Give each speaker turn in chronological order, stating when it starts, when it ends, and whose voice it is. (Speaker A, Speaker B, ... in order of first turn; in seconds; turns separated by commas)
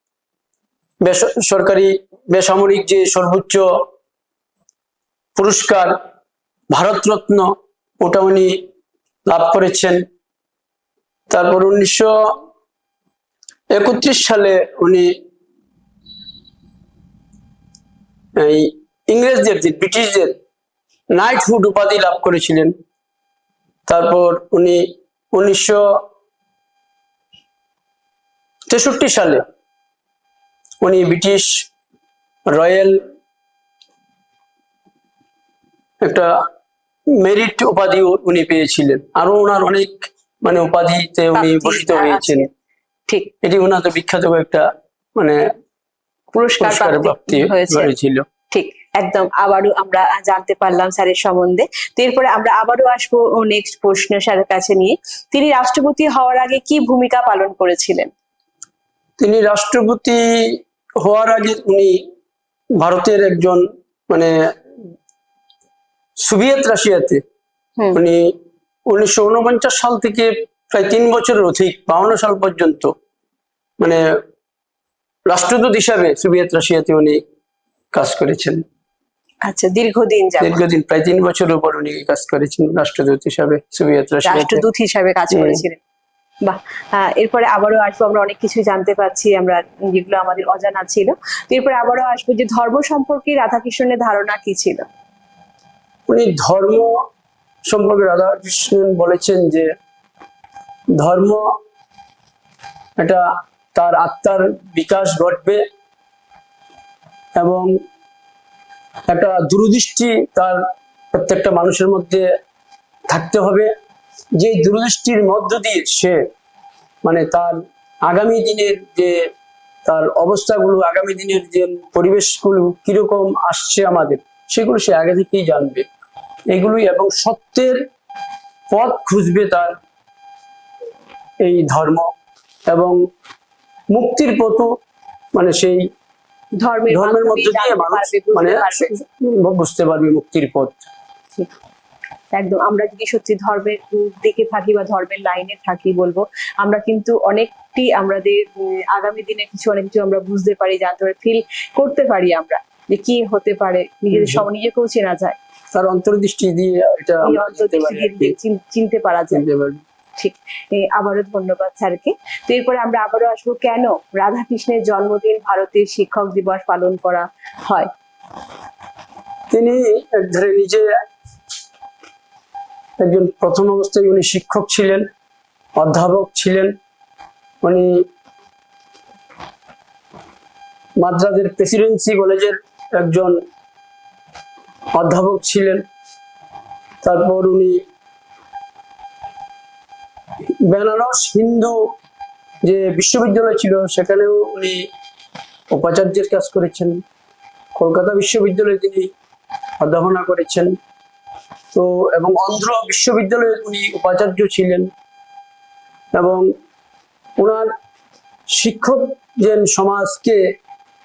Speaker A: 1.0-3.6, Speaker A: 5.3-5.9, Speaker A: 6.7-7.5, Speaker A: 8.0-8.6, Speaker A: 9.2-10.0, Speaker A: 11.3-12.3, Speaker A: 13.7-15.1, Speaker A: 18.4-20.3, Speaker A: 21.1-22.7, Speaker A: 23.9-25.9, Speaker A: 28.7-29.4, Speaker A: 30.8-31.5, Speaker A: 32.5-33.0, Speaker A: 36.0-36.3, Speaker A: 37.2-42.5, Speaker B: 41.3-42.5, Speaker B: 43.1-43.3, Speaker A: 43.4-45.5, Speaker B: 46.3-47.9, Speaker A: 46.6-48.2, Speaker B: 48.5-58.1, Speaker A: 59.2-61.9, Speaker A: 62.8-64.3, Speaker A: 66.2-67.2, Speaker A: 67.9-68.3, Speaker A: 68.9-72.9, Speaker A: 75.3-77.2, Speaker A: 77.9-78.6, Speaker B: 79.4-80.6, Speaker A: 80.4-84.6, Speaker B: 84.2-85.8, Speaker A: 85.3-85.6, Speaker B: 86.4-94.8, Speaker A: 96.1-97.0, Speaker A: 97.7-99.7, Speaker A: 101.0-101.5, Speaker A: 103.7-105.6, Speaker A: 107.4-107.7, Speaker A: 109.1-110.6, Speaker A: 111.1-112.3, Speaker A: 113.1-113.7, Speaker A: 114.4-116.2, Speaker A: 117.0-117.5, Speaker A: 118.0-119.2, Speaker A: 119.8-125.8, Speaker A: 126.5-127.8, Speaker A: 128.7-129.8, Speaker A: 131.4-132.1, Speaker A: 132.7-133.0, Speaker A: 133.9-134.7, Speaker A: 135.3-135.8, Speaker B: 136.6-138.9, Speaker A: 136.9-140.8, Speaker B: 142.3-155.4, Speaker A: 154.1-154.4, Speaker A: 155.7-158.3, Speaker B: 157.2-159.4, Speaker A: 159.3-159.8, Speaker B: 160.2-167.9, Speaker A: 169.5-170.8, Speaker A: 173.0-175.1, Speaker A: 175.8-176.7, Speaker A: 177.6-178.0, Speaker A: 181.0-183.3, Speaker A: 184.9-185.8, Speaker A: 187.0-187.8, Speaker A: 190.6-191.8, Speaker A: 192.6-194.8, Speaker A: 195.7-197.0, Speaker A: 197.8-199.1, Speaker A: 199.8-200.7, Speaker A: 201.7-204.9, Speaker A: 206.1-206.5, Speaker A: 207.4-207.7, Speaker A: 208.5-210.4